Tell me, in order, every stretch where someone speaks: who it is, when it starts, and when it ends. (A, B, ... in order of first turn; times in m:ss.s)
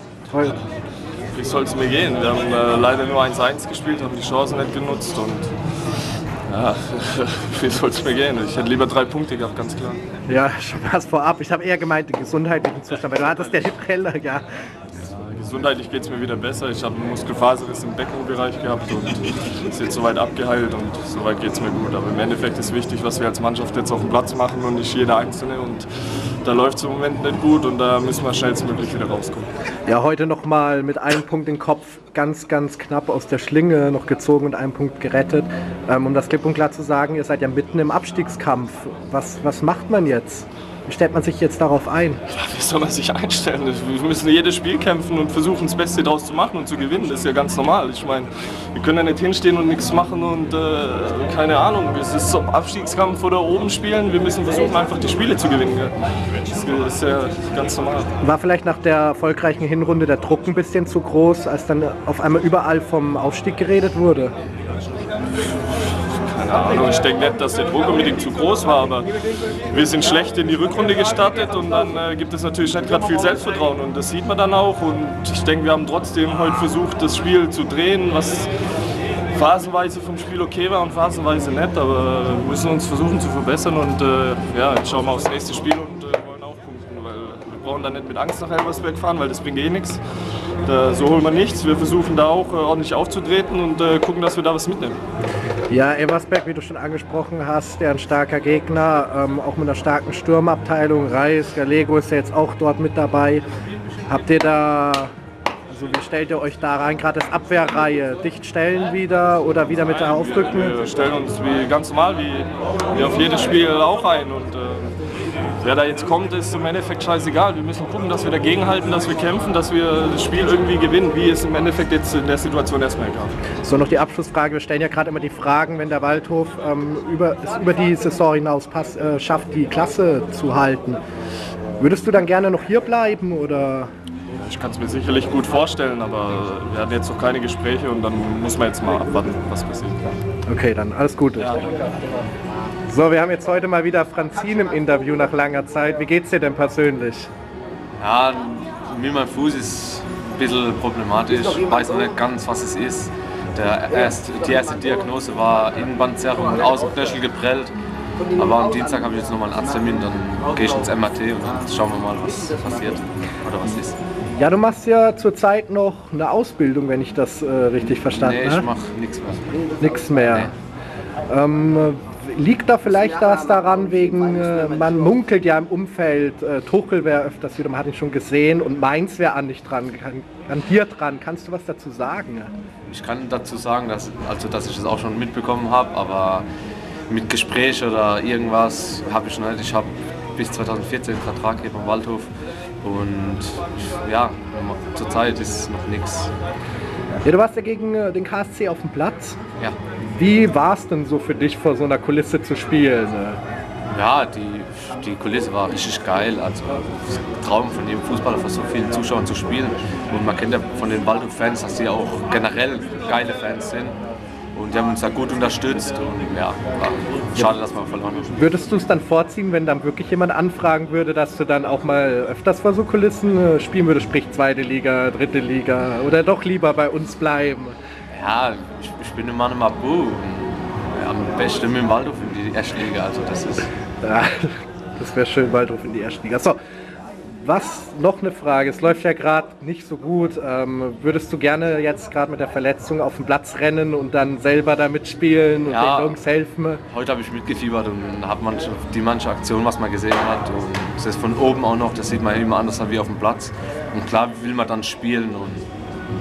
0:00.3-0:00.6 A
0:01.3-0:05.5 B
0:06.5-0:10.0 B
0:10.3-0:14.4 A
0:15.0-0:25.9 B
0:26.4-0:29.5 B
0:29.9-0:42.2 A
0:42.3-0:56.0 B
0:56.5-0:58.1 B
0:58.2-1:04.3 A
1:06.2-1:09.1 B
1:09.7-1:18.5 B
1:19.3-1:30.0 B
1:30.6-1:35.0 B
1:35.7-1:43.4 A
1:44.1-1:45.1 A
1:45.7-1:50.8 A
1:50.1-1:55.0 B
1:55.6-2:03.4 B
2:03.6-2:11.0 A
2:11.8-2:13.9 A
2:14.4-2:20.1 B
2:20.5-2:21.7 A
2:22.9-2:27.3 A
2:28.0-2:37.7 C
2:38.3-2:44.0 C
2:44.3-2:48.7 A
2:48.2-2:49.6 C
2:49.8-2:50.5 A
2:51.3-3:02.5 A
3:02.9-3:06.4 C
3:07.1-3:12.3 C
3:12.8-3:16.3 C
3:17.2-3:19.4 A
3:20.0-3:23.4 A
3:23.9-3:34.0 C
3:34.5-3:38.3 C
3:38.3-3:47.8 A
3:48.1-3:53.7 C
3:54.0-3:56.6 A
3:57.4-4:06.8 A
4:05.7-4:06.2 C
4:06.9-4:15.7 C